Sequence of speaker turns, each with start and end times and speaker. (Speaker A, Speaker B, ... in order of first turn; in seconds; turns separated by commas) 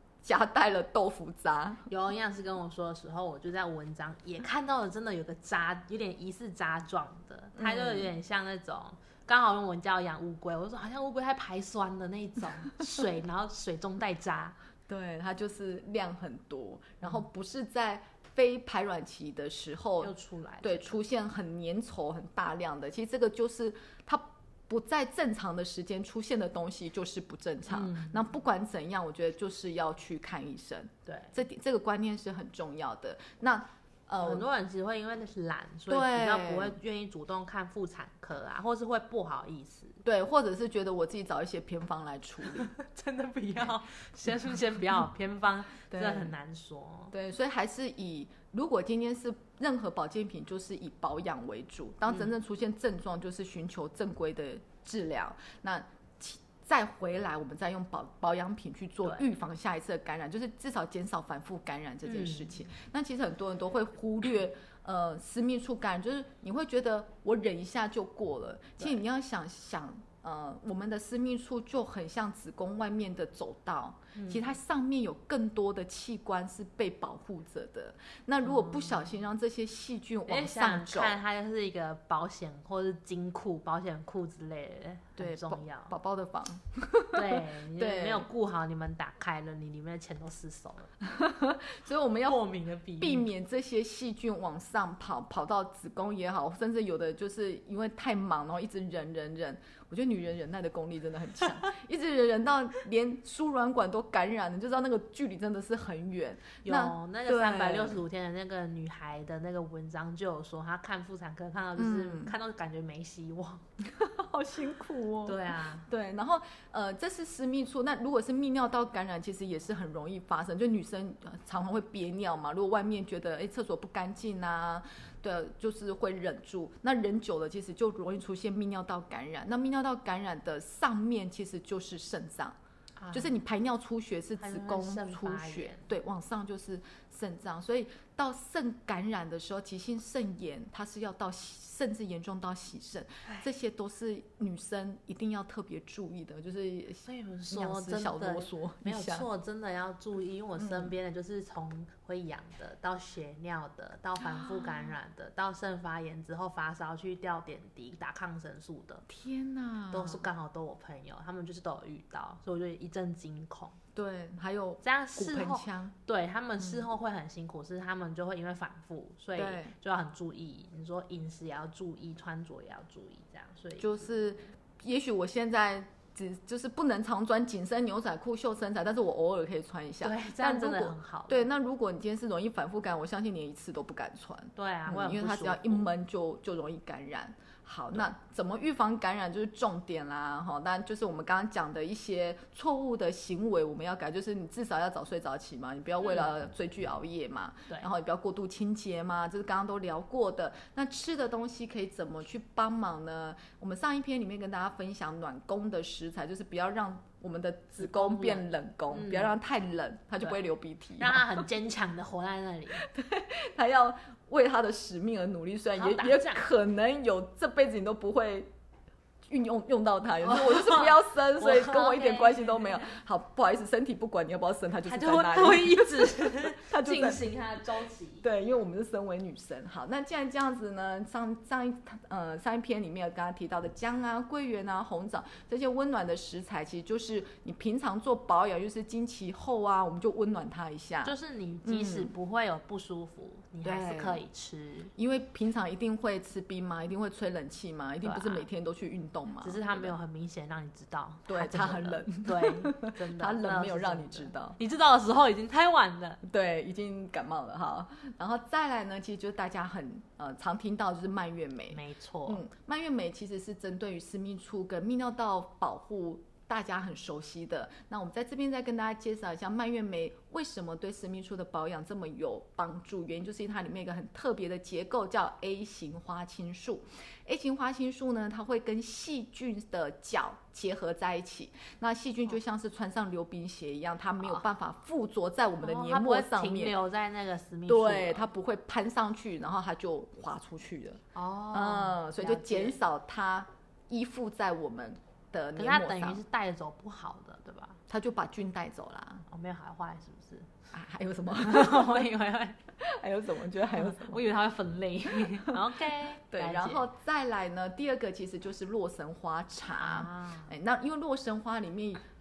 Speaker A: 0.2-1.8, Speaker B: 1.9-14.6, Speaker A: 7.5-8.1, Speaker A: 14.9-34.5, Speaker B: 20.0-20.9, Speaker B: 27.7-28.2, Speaker B: 31.1-31.3, Speaker B: 34.2-40.0, Speaker A: 35.9-36.8, Speaker A: 40.0-42.7, Speaker B: 42.5-47.1, Speaker A: 45.9-46.3, Speaker A: 47.1-81.2, Speaker B: 62.0-62.5, Speaker B: 74.2-74.5, Speaker B: 78.4-79.1, Speaker B: 80.3-85.9, Speaker A: 85.2-88.3, Speaker B: 87.1-90.9, Speaker A: 91.0-92.4, Speaker B: 92.2-93.3, Speaker A: 93.0-108.0, Speaker B: 106.6-113.6, Speaker A: 111.8-112.3, Speaker A: 113.8-132.6, Speaker B: 115.2-115.9, Speaker B: 133.0-133.3, Speaker A: 133.1-149.3, Speaker B: 134.4-135.8, Speaker B: 147.0-159.0, Speaker A: 150.6-150.9, Speaker A: 154.2-154.8, Speaker A: 159.1-160.3, Speaker B: 159.9-163.8, Speaker A: 163.9-165.9, Speaker B: 164.8-174.1, Speaker A: 166.6-166.8, Speaker A: 169.4-169.7, Speaker A: 173.8-211.4, Speaker B: 180.0-181.4, Speaker B: 184.6-185.9, Speaker B: 196.0-196.3, Speaker B: 207.8-209.3, Speaker B: 211.0-212.8, Speaker A: 212.8-218.5, Speaker B: 215.8-216.4, Speaker A: 219.3-227.2, Speaker B: 220.2-222.8, Speaker B: 224.8-228.2, Speaker A: 228.2-242.1, Speaker B: 241.0-244.9, Speaker A: 243.6-244.2, Speaker A: 245.0-249.9, Speaker B: 248.0-248.5, Speaker B: 249.4-256.2, Speaker A: 251.3-254.6, Speaker A: 256.2-286.7, Speaker B: 261.7-262.4, Speaker B: 285.6-288.3, Speaker A: 287.7-296.2, Speaker B: 291.1-292.8, Speaker B: 295.6-297.8, Speaker A: 297.9-299.2, Speaker B: 299.3-300.5, Speaker A: 300.7-302.1, Speaker B: 301.4-302.6, Speaker A: 302.8-304.2, Speaker B: 303.7-306.8, Speaker A: 305.2-305.6, Speaker A: 306.3-312.0, Speaker B: 309.8-310.5